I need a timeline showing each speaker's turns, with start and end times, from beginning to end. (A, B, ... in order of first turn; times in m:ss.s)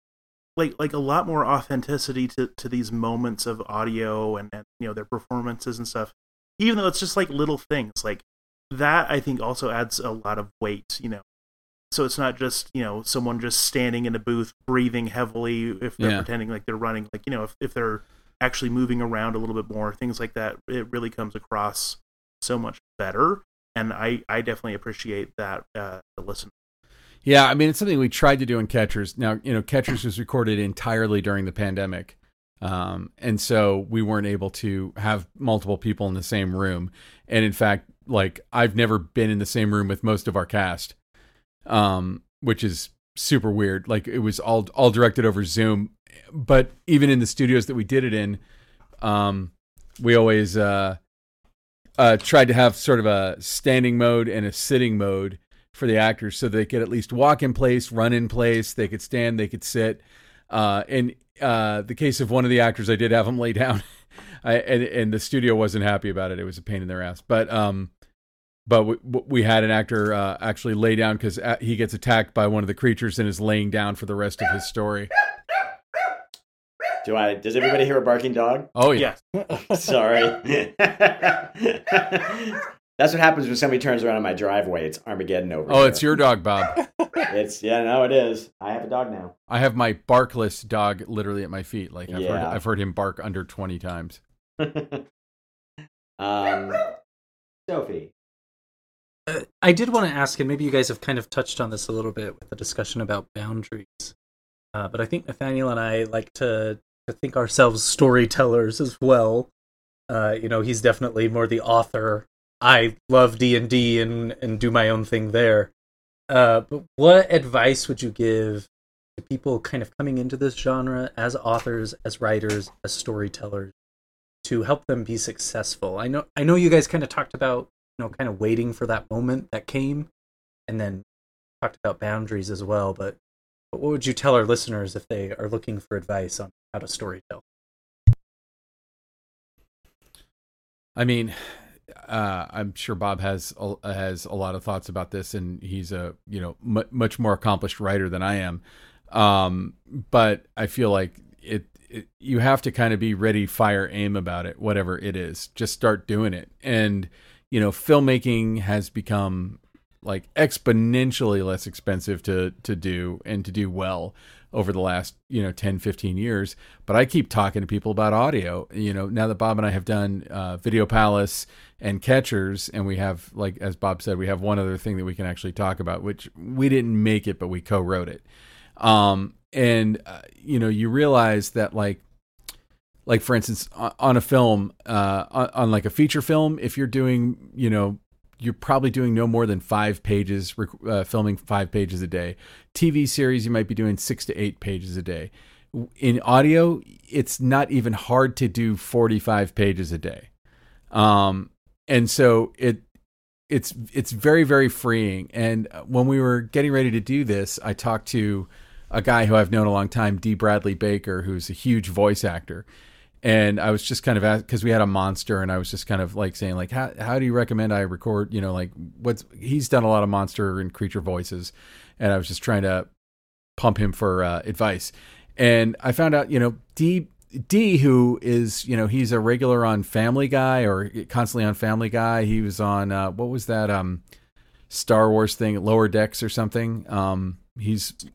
0:00.6-0:11.2 A
0:11.9-0:26.5 A
0:16.0-0:16.3 B
0:27.2-0:41.0 B
0:41.7-0:48.4 B
0:49.0-0:51.0 B
0:52.0-1:03.8 B
1:04.4-1:07.9 B
1:08.7-1:15.1 B
1:17.0-1:18.7 C
1:18.8-1:19.1 B
1:19.4-1:19.9 D
1:19.7-1:26.0 C
1:25.7-1:26.8 B
1:27.3-1:29.3 C
1:29.5-1:34.2 B
1:32.1-1:32.6 C
1:34.6-1:35.0 C
1:36.2-1:37.0 C
1:37.7-1:38.1 C
1:39.3-1:44.1 D
1:44.8-1:49.5 D
1:50.1-1:55.7 D
1:56.3-2:03.7 D
2:04.4-2:10.1 D
2:10.7-2:11.0 D
2:11.6-2:13.2 D
2:13.7-2:17.4 D
2:21.0-2:58.2 B
2:58.8-3:02.0 B
3:03.1-3:20.3 B
3:20.9-3:22.8 B
3:23.5-3:32.7 B
3:33.2-3:42.9 B
3:43.6-3:54.0 B
3:54.7-3:58.0 B